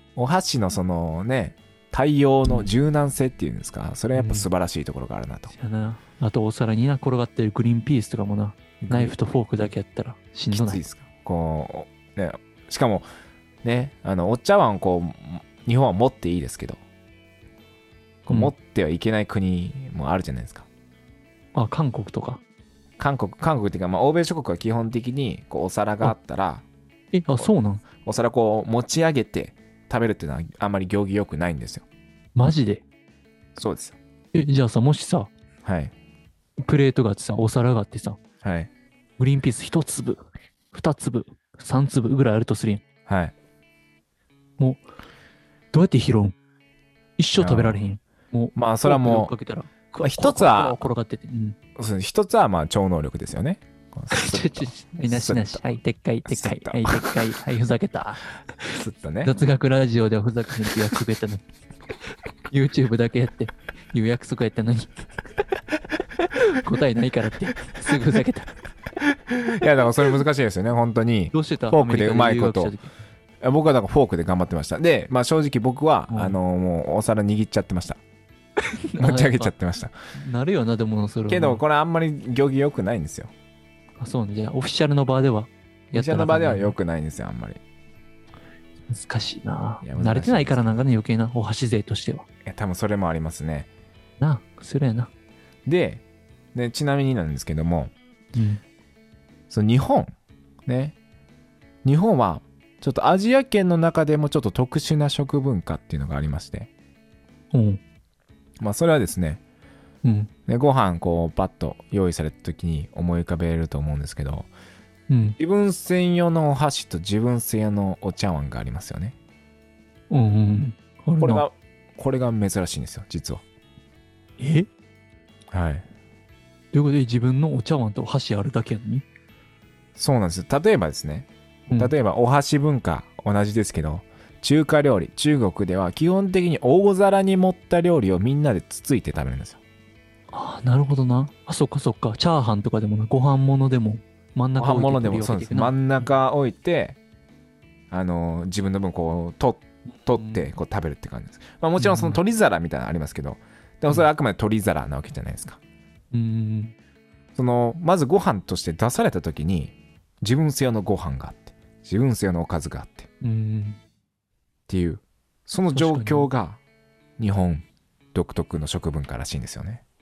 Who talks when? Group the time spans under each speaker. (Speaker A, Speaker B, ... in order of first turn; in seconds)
Speaker A: 0.2-5.5, 8.8-9.2, 10.5-13.1, 13.6-16.8, 18.3-20.7, 23.0-26.6, 28.0-31.9, 33.6-34.0, 35.6-35.9, 38.4-38.7, 43.1-43.3, 47.4-47.8, 48.5-49.3, 50.0-50.8, 51.8-55.6, 56.3-57.2, 58.7-59.4, 69.3-72.7, 73.4-78.0, 79.0-79.9, 81.3-83.3, 85.9-87.6, 89.8-90.8, 92.5-93.7, 95.7-96.0, 96.5-97.9, 99.5-100.1, 100.7-101.0, 101.8-106.7, 108.6-109.4, 110.5-114.5, 115.4-119.2, 121.2-123.4, 125.5-125.8, 130.0-139.6, 144.6-147.0, 147.9-155.6, 157.4-163.1, 164.7-166.6, 167.2-169.8
Speaker B: 4.1-4.5, 5.5-10.8, 21.6-22.4, 27.1-27.8, 32.4-32.8, 34.3-35.3, 36.6-38.2, 39.2-42.8, 45.7-46.4, 47.2-51.6, 54.1-58.3, 59.2-61.4, 62.5-65.0, 66.2-68.5, 71.3-72.9, 76.1-76.4, 79.0-79.5, 80.1-81.6, 84.0-86.8, 88.9-92.2, 94.2-95.1, 98.3-98.6, 107.5-107.8, 110.0-110.3, 115.1-115.4, 120.1-121.4, 124.4-124.7, 126.7-129.1, 140.3-146.1, 150.0-150.4, 151.8-152.2, 156.1-156.8, 163.2-163.8, 165.7-166.3